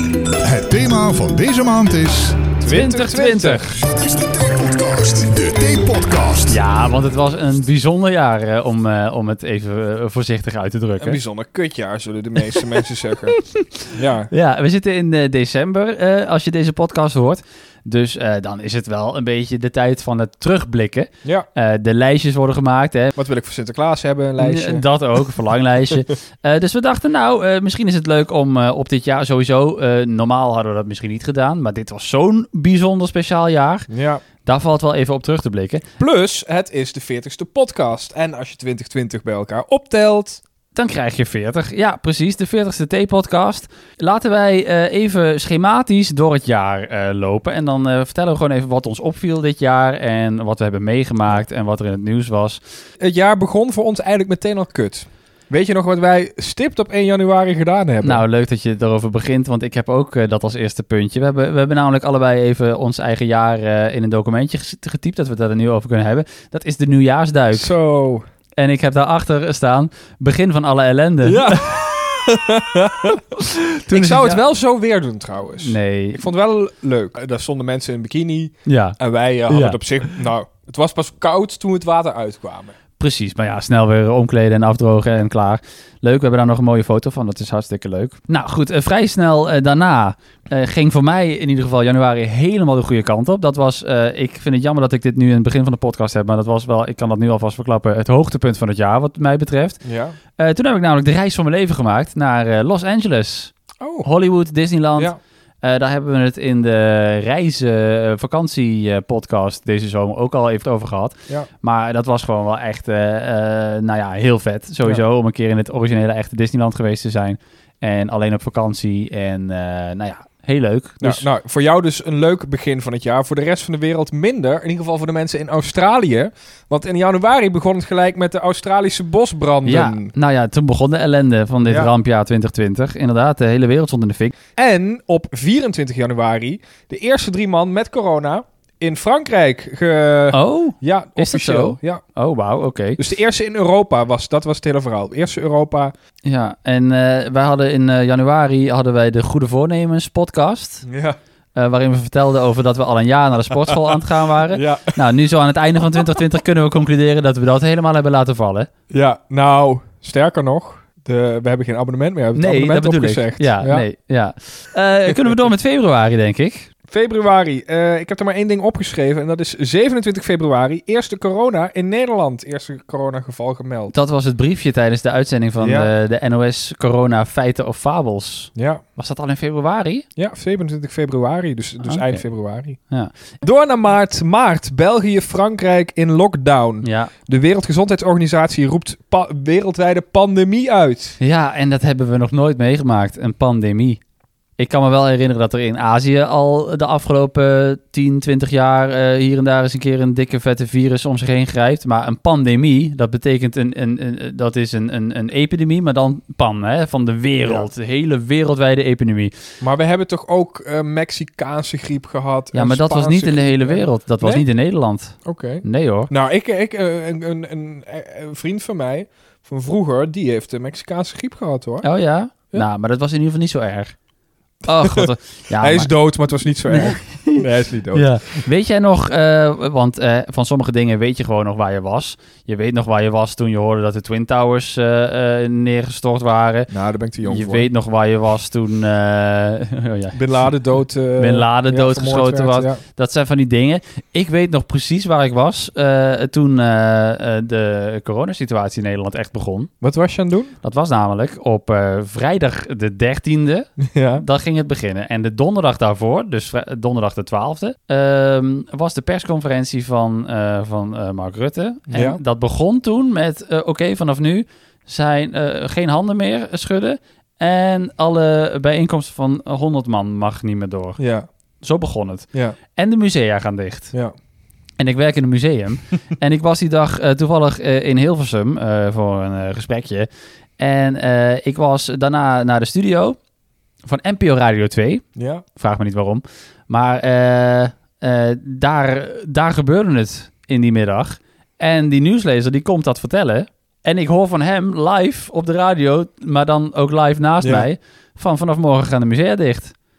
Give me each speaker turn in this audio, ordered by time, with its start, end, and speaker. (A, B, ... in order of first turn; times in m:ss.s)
0:00.4-0:02.5 A
0:02.6-0:03.6 B
0:02.6-0:03.8 C
0:03.8-0:06.6 A
0:06.5-0:11.2 C
0:11.0-0:13.4 B
0:13.3-0:23.1 C
0:13.9-0:14.3 B
0:23.1-0:24.8 B
0:24.4-0:33.9 C
0:33.9-0:34.2 B
0:34.4-0:35.8 C
0:36.0-0:40.4 B
0:40.7-0:52.6 C
0:53.0-0:58.2 B
0:58.0-1:07.7 C
1:07.5-1:08.2 B
1:08.6-1:11.7 C
1:11.2-1:22.8 B
1:13.8-1:14.4 C
1:15.6-1:16.2 C
1:18.6-1:19.0 C
1:19.5-1:19.8 C
1:23.0-1:39.8 C
1:39.8-1:40.2 B
1:40.4-2:01.2 C
1:43.8-1:44.1 B
2:01.0-2:10.1 B
2:09.6-2:14.3 C
2:11.6-2:11.9 B
2:14.6-2:22.0 B
2:20.3-2:23.0 C
2:23.0-2:25.9 B
2:26.2-2:30.8 C
2:30.8-2:31.2 B
2:31.5-2:38.7 C
2:34.5-2:35.0 B
2:38.9-2:43.8 B
2:42.3-2:46.7 C
2:46.9-2:53.9 B
2:53.9-3:00.0 C
2:55.6-2:55.9 B
2:58.6-2:58.8 B
3:00.2-3:02.8 B
3:01.8-3:02.2 C
3:03.4-3:11.2 B
3:06.8-3:07.1 C
3:11.2-3:14.0 C
3:14.6-3:29.3 C
3:29.6-3:34.4 B
3:32.5-3:36.1 C
3:35.2-3:41.8 B
3:41.8-3:43.9 C
3:44.6-3:45.9 C
3:44.8-3:48.1 B
3:46.7-3:56.7 C
3:56.7-3:57.7 B
3:57.2-4:00.2 C
4:00.1-4:02.8 B
4:01.2-4:09.7 C
4:09.8-4:10.5 B
4:10.6-4:31.0 C
4:13.8-4:14.2 B
4:21.9-4:22.2 B
4:31.0-4:31.3 B
4:31.6-4:33.9 C
4:34.8-4:43.2 C
4:43.8-4:59.7 C
4:45.2-4:45.4 B
4:57.4-4:57.7 B